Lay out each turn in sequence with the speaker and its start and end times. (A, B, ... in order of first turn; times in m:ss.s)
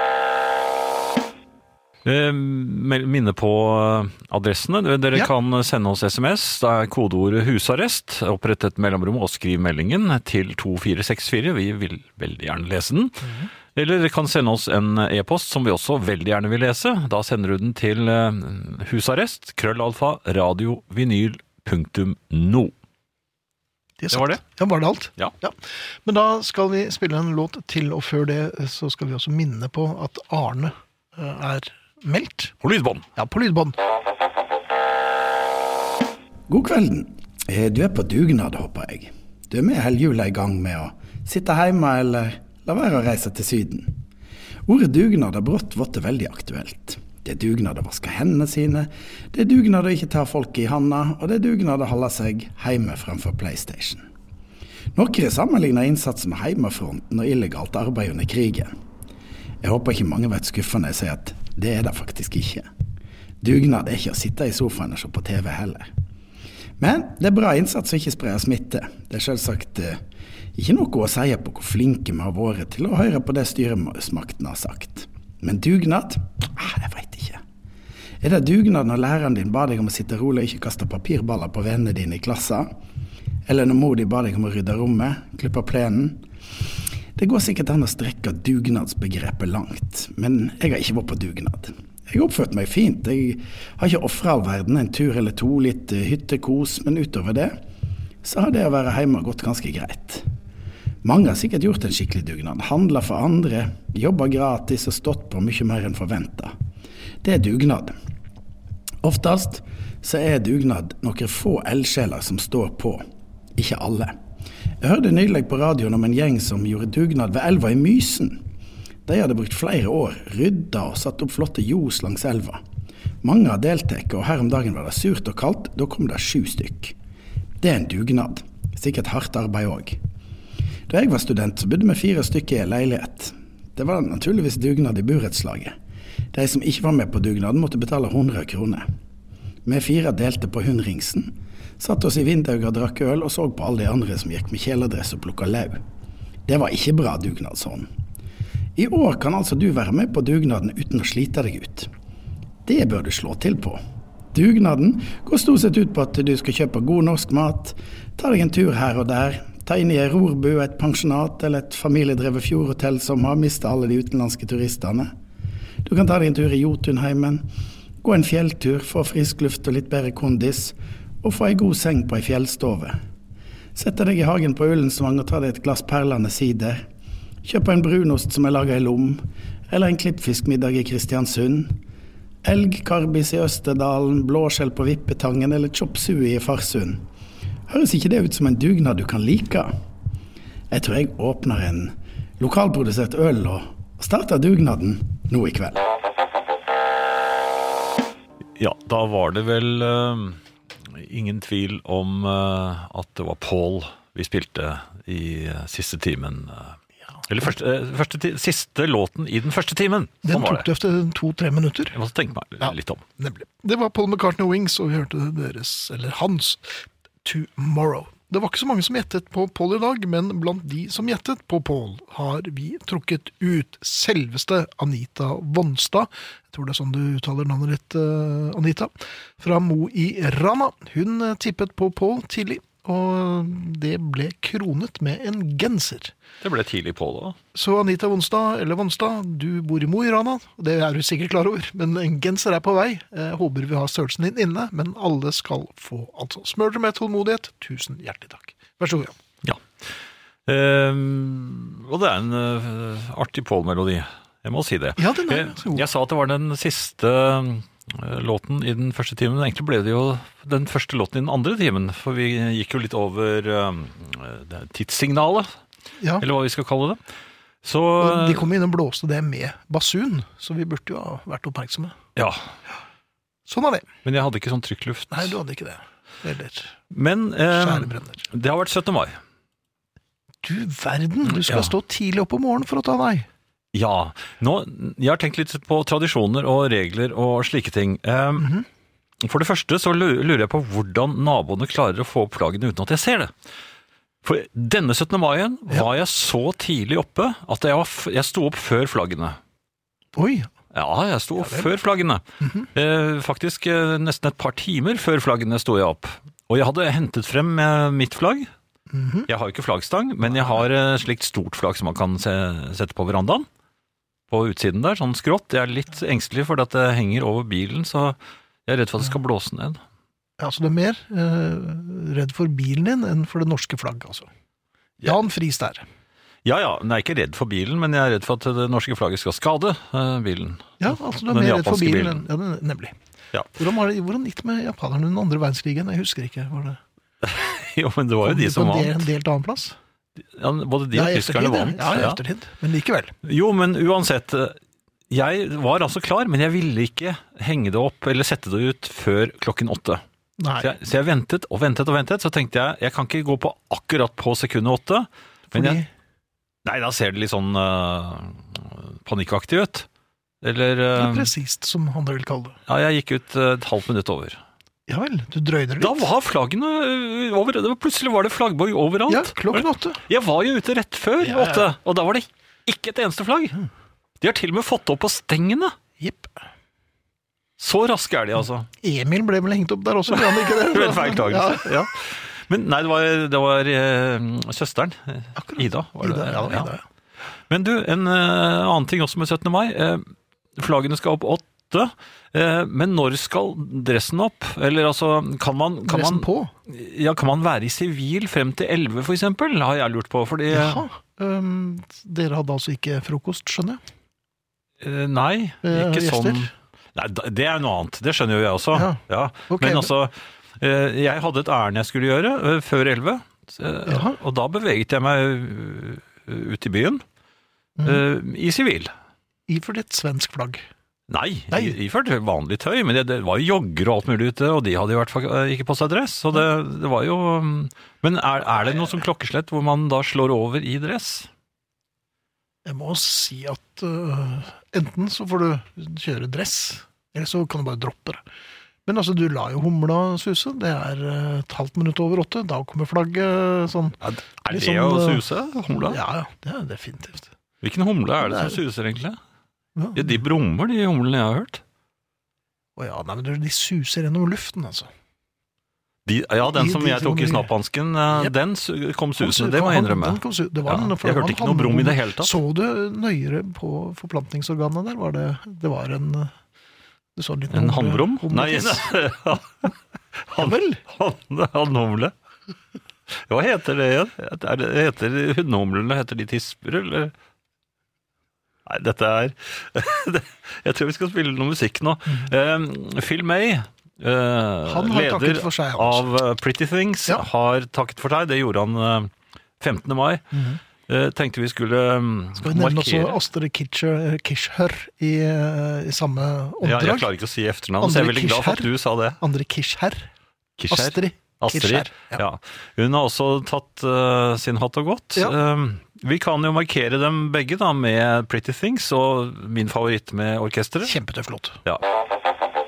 0:02.0-0:22.7 A
0:13.2-0:13.5 B
0:24.0-0:32.5 B
0:24.1-0:24.4 A
0:32.6-0:33.0 A
0:33.2-0:33.8 B
0:36.5-0:44.0 C
0:44.6-0:54.0 C
0:54.9-0:58.7 C
0:59.6-1:02.7 C
1:03.4-1:05.9 C
1:06.8-1:10.0 C
1:10.5-1:17.4 C
1:18.2-1:22.7 C
1:23.5-1:26.2 C
1:27.2-1:37.6 C
1:38.2-1:40.2 C
1:41.0-1:46.5 C
1:47.2-1:47.9 C
1:49.0-1:53.0 C
1:53.6-1:54.1 C
1:54.8-1:58.4 C
1:59.0-2:02.6 C
2:03.2-2:06.9 C
2:07.6-2:10.0 C
2:10.9-2:15.7 C
2:16.3-2:18.8 C
2:19.6-2:25.8 C
2:26.5-2:27.9 C
2:28.8-2:31.9 C
2:32.6-2:33.8 C
2:34.3-2:45.1 C
2:45.8-2:47.4 C
2:48.0-2:53.0 C
2:53.7-2:56.8 C
2:57.4-3:01.8 C
3:02.4-3:07.0 C
3:07.7-3:09.7 C
3:10.7-3:15.8 C
3:18.6-3:30.7 A
3:30.2-3:32.0 B
3:31.9-3:33.0 A
3:32.6-3:56.1 B
3:56.4-3:57.4 A
3:57.5-4:09.2 B
4:10.5-4:25.5 A
4:15.0-4:15.9 B
4:26.0-4:26.3 B
4:26.2-4:27.0 A
4:27.6-4:28.4 A
4:28.0-4:32.0 B
4:32.2-4:32.4 A
4:33.5-4:33.9 B
4:34.0-4:35.3 A
4:35.1-4:36.7 B
4:36.9-4:39.2 A
4:37.5-4:38.3 B
4:40.4-4:43.3 B
4:41.3-4:41.7 A
4:43.7-4:48.6 A
4:48.4-4:48.6 B
4:49.2-4:53.3 A
4:54.2-4:59.4 A
5:00.1-5:00.5 B
5:00.7-5:08.5 A
5:08.9-5:09.3 B
5:09.3-5:13.5 A
5:14.3-5:19.8 A
5:20.4-5:24.3 B
5:25.0-5:25.8 B
5:26.4-5:32.2 A
5:30.8-5:33.0 B
5:33.6-5:36.8 B
5:37.2-5:39.1 A
5:38.2-5:39.8 B
5:40.4-5:42.2 A
5:40.9-5:43.1 B
5:43.2-5:44.6 A
5:45.1-5:50.0 A
5:50.4-5:50.7 B
5:50.6-5:55.8 A
5:55.5-5:55.9 B
5:56.6-5:59.9 A
6:00.4-6:01.3 A
6:01.0-6:02.6 B
6:02.7-6:04.4 A
6:04.9-6:06.1 B
6:05.8-6:13.6 A
6:09.1-6:10.0 B
6:11.2-6:11.6 B
6:14.2-6:15.7 A
6:16.0-6:16.4 B
6:17.6-6:18.7 A
6:18.8-6:21.8 B
6:20.1-6:26.7 A
6:25.4-6:26.8 B
6:27.5-6:40.8 A
6:35.8-6:36.5 B
6:40.5-6:43.8 B
6:44.8-6:57.0 A
6:45.6-6:46.5 B
6:48.7-6:49.9 B
6:53.9-6:54.2 B
6:57.8-6:58.9 A
6:59.5-7:00.6 B
7:01.1-7:11.3 A
7:12.6-7:18.2 B
7:18.9-7:24.0 B
7:24.0-7:26.0 A
7:24.5-7:27.3 B
7:27.6-7:29.2 A
7:28.2-7:28.6 B
7:29.8-7:30.1 B
7:30.0-7:31.6 A
7:32.8-7:34.9 B
7:36.0-7:42.3 A
7:36.4-7:37.5 B
7:39.2-7:46.3 B
7:47.2-7:48.9 B
7:47.5-7:49.7 A
7:50.2-7:52.1 A
7:50.4-7:50.8 B
7:53.2-7:57.1 A
7:58.6-8:10.2 A
8:04.6-8:06.1 B
8:10.3-8:10.6 B
8:10.9-8:13.2 A
8:12.4-8:17.1 B
8:16.6-8:19.2 A
8:17.8-8:20.1 B
8:20.6-8:31.0 A
8:20.7-8:22.2 B
8:30.8-8:31.6 B